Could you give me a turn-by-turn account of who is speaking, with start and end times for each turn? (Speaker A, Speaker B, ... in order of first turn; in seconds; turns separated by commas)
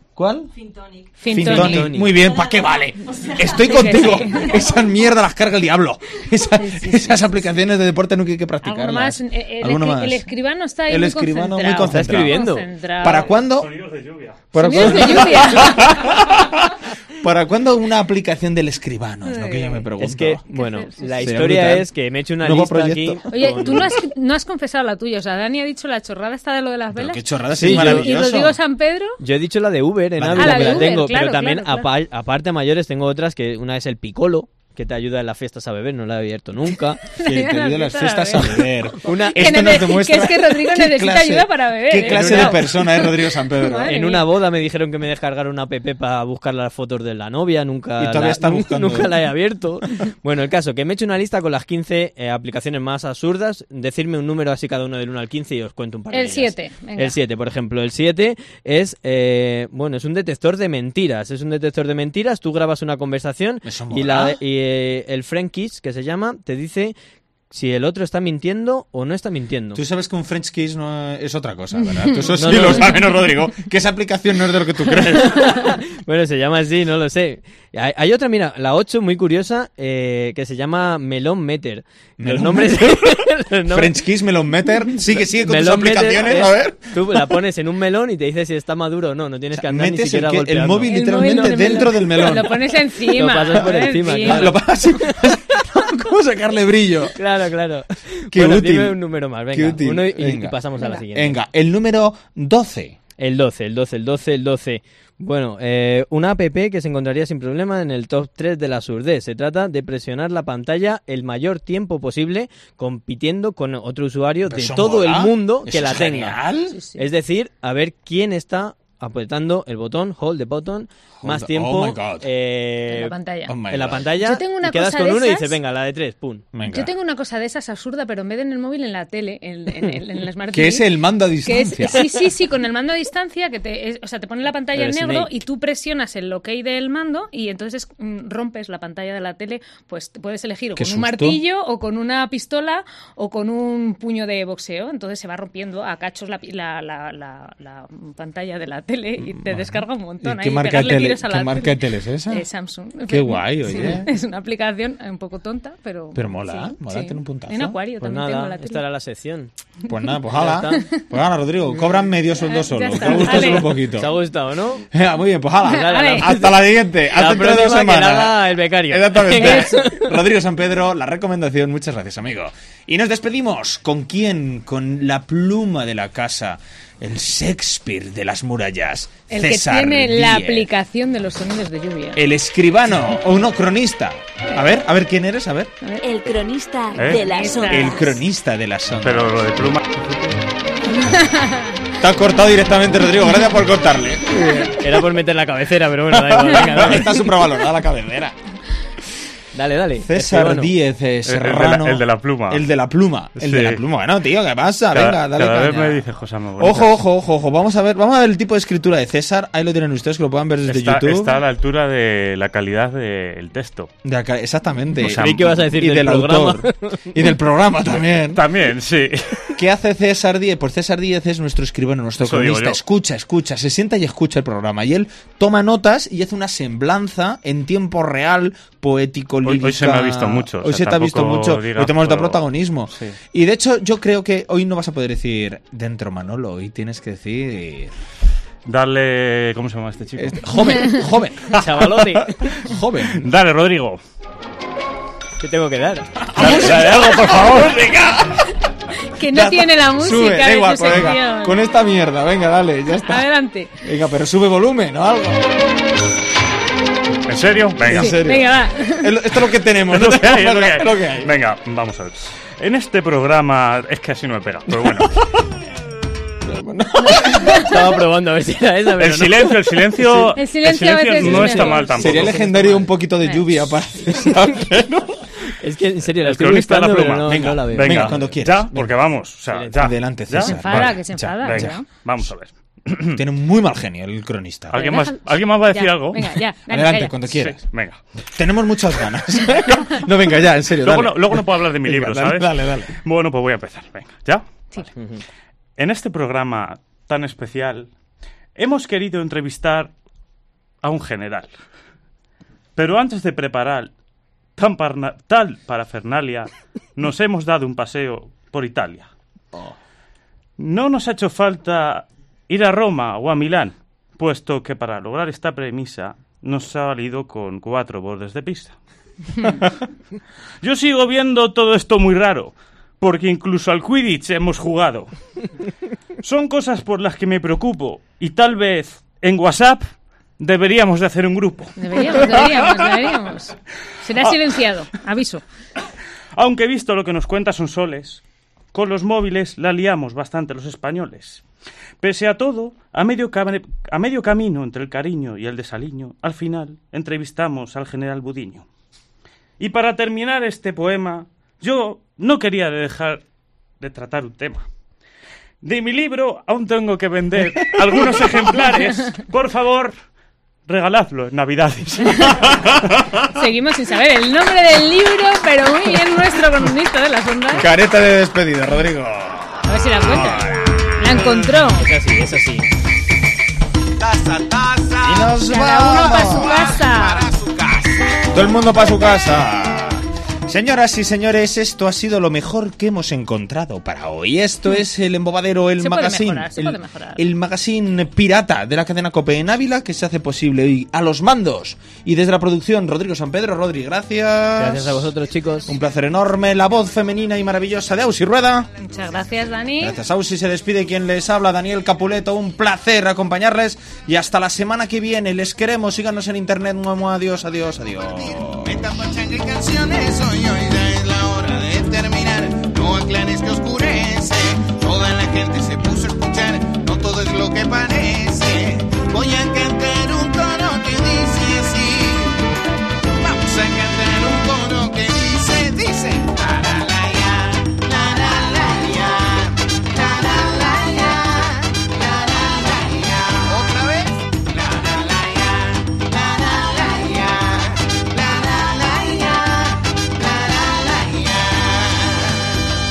Speaker A: 0.1-0.5, Speaker B: 0.5-1.2, Speaker C: 1.2-1.9, Speaker A: 1.3-10.3, Speaker D: 1.3-2.1, Speaker B: 2.1-4.9, Speaker C: 3.6-4.5, Speaker C: 6.6-7.3, Speaker C: 8.6-13.4, Speaker A: 10.9-12.4, Speaker D: 11.8-12.7, Speaker A: 13.0-13.7, Speaker E: 13.1-15.2, Speaker A: 14.5-20.4, Speaker C: 14.5-16.3, Speaker C: 19.2-19.9, Speaker D: 20.0-24.0, Speaker C: 20.5-21.4, Speaker A: 21.2-23.9, Speaker C: 23.3-29.2, Speaker A: 26.9-28.6, Speaker D: 27.6-28.1, Speaker D: 29.2-37.1, Speaker A: 30.1-31.0, Speaker C: 30.4-31.9, Speaker C: 37.1-44.2, Speaker A: 37.2-44.0, Speaker D: 39.0-39.7, Speaker D: 42.0-42.9, Speaker D: 43.6-66.9, Speaker A: 48.0-49.2, Speaker C: 56.1-57.2, Speaker A: 63.6-64.4, Speaker D: 67.5-69.8, Speaker A: 69.7-75.7, Speaker D: 72.3-73.0, Speaker D: 75.0-84.0, Speaker A: 82.2-87.2, Speaker D: 85.4-92.3, Speaker A: 89.5-92.7, Speaker C: 90.9-94.6, Speaker D: 93.0-95.3, Speaker A: 93.6-97.2, Speaker D: 97.2-101.4, Speaker A: 98.3-99.0, Speaker A: 99.5-100.6, Speaker A: 101.1-103.0, Speaker D: 103.2-116.4, Speaker A: 114.5-116.8, Speaker C: 116.7-117.0, Speaker D: 117.0-123.2, Speaker A: 121.2-122.3, Speaker C: 122.9-123.6, Speaker A: 123.5-124.0, Speaker D: 123.7-126.5, Speaker C: 124.1-125.6, Speaker A: 126.5-126.9, Speaker C: 126.7-130.9, Speaker A: 130.5-132.1, Speaker C: 131.4-158.8, Speaker D: 134.7-135.3, Speaker A: 140.8-141.4, Speaker A: 149.2-152.5, Speaker A: 153.1-154.1, Speaker A: 156.1-157.8, Speaker D: 158.0-159.5, Speaker A: 159.9-164.1, Speaker D: 160.3-160.8, Speaker C: 162.4-163.8, Speaker D: 163.0-164.9, Speaker A: 164.9-180.7, Speaker D: 165.6-170.2, Speaker C: 165.7-166.3, Speaker C: 169.4-169.8, Speaker C: 179.3-182.2, Speaker A: 182.1-185.7, Speaker F: 186.0-188.1, Speaker E: 186.9-187.3, Speaker C: 187.1-188.1, Speaker A: 187.7-189.5, Speaker E: 189.0-190.4, Speaker C: 190.9-191.7, Speaker A: 192.0-194.8, Speaker D: 194.6-197.2, Speaker A: 196.1-198.3, Speaker D: 199.5-200.7, Speaker A: 200.0-206.0, Speaker E: 201.2-202.7, Speaker E: 203.3-203.8, Speaker E: 204.9-207.0, Speaker A: 206.6-211.4, Speaker E: 210.7-213.9, Speaker A: 214.0-218.4, Speaker D: 215.0-217.2, Speaker E: 215.1-215.4, Speaker E: 217.9-219.6, Speaker A: 219.5-237.9, Speaker E: 222.2-222.8, Speaker E: 229.4-233.2, Speaker E: 238.7-240.7, Speaker A: 240.2-243.2, Speaker D: 241.5-242.5, Speaker E: 243.0-244.0, Speaker D: 245.4-246.8, Speaker A: 246.3-248.5, Speaker E: 246.4-247.8, Speaker C: 249.2-251.6, Speaker A: 249.3-253.3, Speaker C: 253.0-253.7, Speaker A: 253.8-255.5, Speaker E: 257.3-258.3, Speaker A: 257.8-261.3, Speaker C: 257.9-259.2, Speaker E: 259.9-265.1, Speaker A: 264.7-265.3, Speaker A: 266.4-267.9, Speaker D: 267.5-269.6, Speaker E: 269.0-272.4, Speaker C: 270.3-272.1, Speaker A: 271.2-275.3, Speaker D: 271.2-272.9, Speaker D: 275.5-278.3, Speaker E: 276.1-283.2, Speaker A: 277.2-279.1, Speaker D: 279.5-279.9, Speaker A: 279.7-281.8, Speaker C: 280.4-281.9, Speaker A: 283.1-284.8, Speaker E: 284.7-286.4, Speaker C: 284.7-287.2, Speaker A: 286.7-287.6, Speaker E: 287.3-288.0, Speaker A: 288.3-292.9, Speaker E: 290.8-294.5, Speaker D: 294.9-295.2, Speaker E: 295.8-297.9, Speaker E: 298.6-299.9, Speaker E: 300.8-301.5, Speaker E: 302.8-303.9, Speaker E: 304.6-309.1, Speaker E: 310.6-318.8, Speaker E: 319.4-319.7, Speaker E: 320.6-325.1, Speaker E: 326.2-329.9, Speaker E: 330.4-332.9, Speaker C: 331.8-335.4, Speaker E: 336.4-338.2, Speaker E: 338.7-341.4, Speaker E: 342.0-348.6, Speaker E: 349.6-353.2, Speaker E: 353.8-354.7, Speaker E: 355.6-360.0, Speaker A: 357.6-358.3, Speaker E: 360.7-362.7, Speaker A: 362.1-362.8, Speaker C: 363.3-367.7, Speaker A: 367.5-371.4, Speaker C: 369.6-371.9, Speaker D: 371.7-372.7, Speaker G: 374.0-378.2, Speaker A: 375.0-376.7, Speaker C: 375.4-377.3, Speaker A: 378.3-395.1, Speaker C: 385.8-387.2, Speaker D: 394.6-395.7, Speaker A: 395.7-398.7, Speaker C: 398.8-400.0, Speaker A: 399.8-408.8, Speaker G: 408.4-422.4, Speaker G: 423.2-442.6